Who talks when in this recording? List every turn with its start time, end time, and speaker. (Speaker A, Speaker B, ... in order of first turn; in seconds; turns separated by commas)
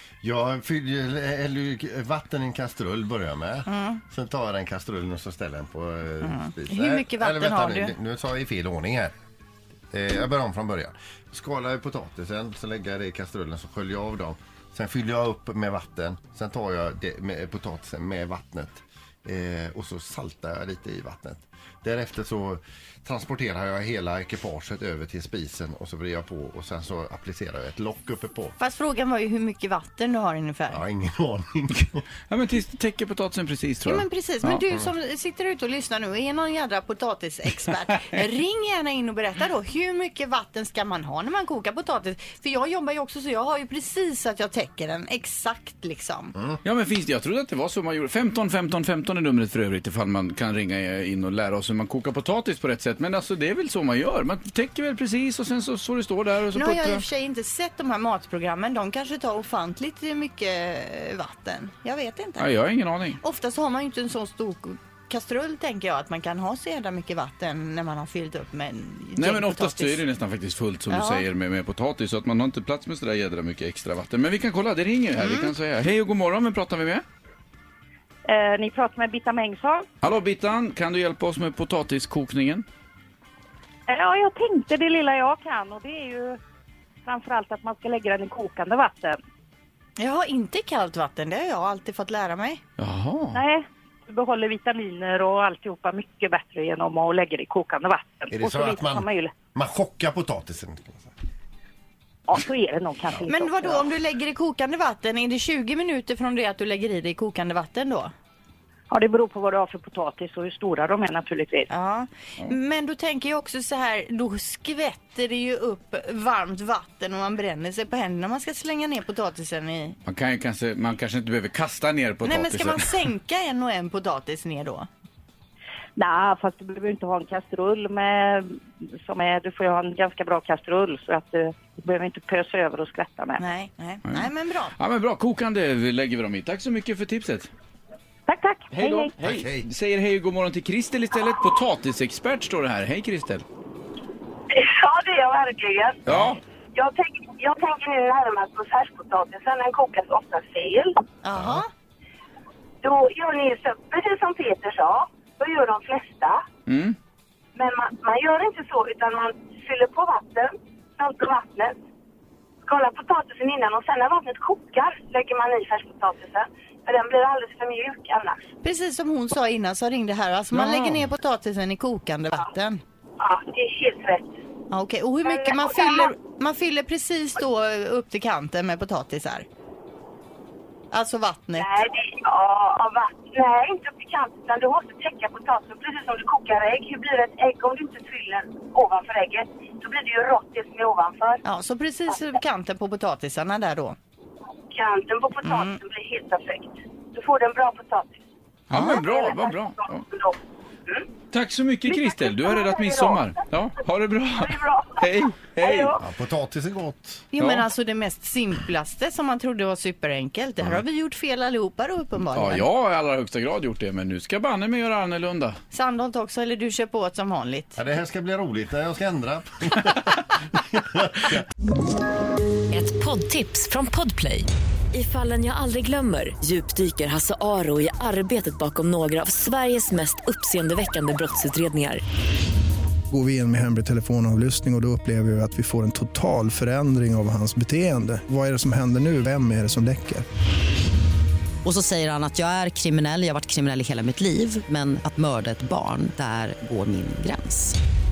Speaker A: 0.2-9.1, Speaker B: 3.7-4.0, Speaker B: 6.2-7.9, Speaker A: 9.9-28.6, Speaker B: 28.6-30.8, Speaker A: 30.7-32.0, Speaker C: 32.3-34.6, Speaker B: 33.8-46.3, Speaker C: 46.6-57.0, Speaker B: 56.5-62.5, Speaker C: 62.4-63.2, Speaker B: 63.2-70.0, Speaker C: 69.2-77.0, Speaker B: 70.9-71.3, Speaker D: 78.2-79.8, Speaker C: 80.0-82.6, Speaker D: 83.9-86.4, Speaker D: 87.0-89.2, Speaker B: 90.0-92.6, Speaker C: 92.8-93.4, Speaker D: 93.3-99.3, Speaker A: 98.3-101.1, Speaker D: 102.3-103.9, Speaker B: 103.2-108.1, Speaker D: 108.9-111.7, Speaker B: 111.7-120.0, Speaker C: 120.0-122.9, Speaker B: 122.2-124.9, Speaker D: 126.0-133.4, Speaker B: 133.4-134.7, Speaker C: 134.1-137.5, Speaker D: 138.3-139.1, Speaker C: 138.7-143.4, Speaker A: 139.2-139.7, Speaker E: 144.5-146.1, Speaker C: 146.1-146.4, Speaker E: 146.7-151.0, Speaker B: 151.2-151.7, Speaker A: 151.3-151.6, Speaker E: 152.8-156.4, Speaker C: 156.7-156.9, Speaker E: 157.5-161.7, Speaker E: 162.6-168.5, Speaker B: 168.6-172.8, Speaker C: 170.5-171.0, Speaker E: 173.2-174.3, Speaker B: 174.7-179.4, Speaker E: 175.2-176.1, Speaker B: 180.9-181.8, Speaker E: 181.6-191.4, Speaker B: 191.4-194.0, Speaker E: 194.7-201.1, Speaker B: 195.4-195.8, Speaker C: 198.7-200.0, Speaker C: 201.3-205.9, Speaker E: 201.8-203.4, Speaker E: 204.4-206.0, Speaker A: 206.0-207.2, Speaker B: 207.3-212.6, Speaker C: 207.4-207.7, Speaker C: 212.3-215.6, Speaker B: 215.7-217.8, Speaker A: 217.8-220.1, Speaker A: 220.7-221.4, Speaker F: 222.7-232.0, Speaker G: 233.1-240.2, Speaker H: 241.6-247.8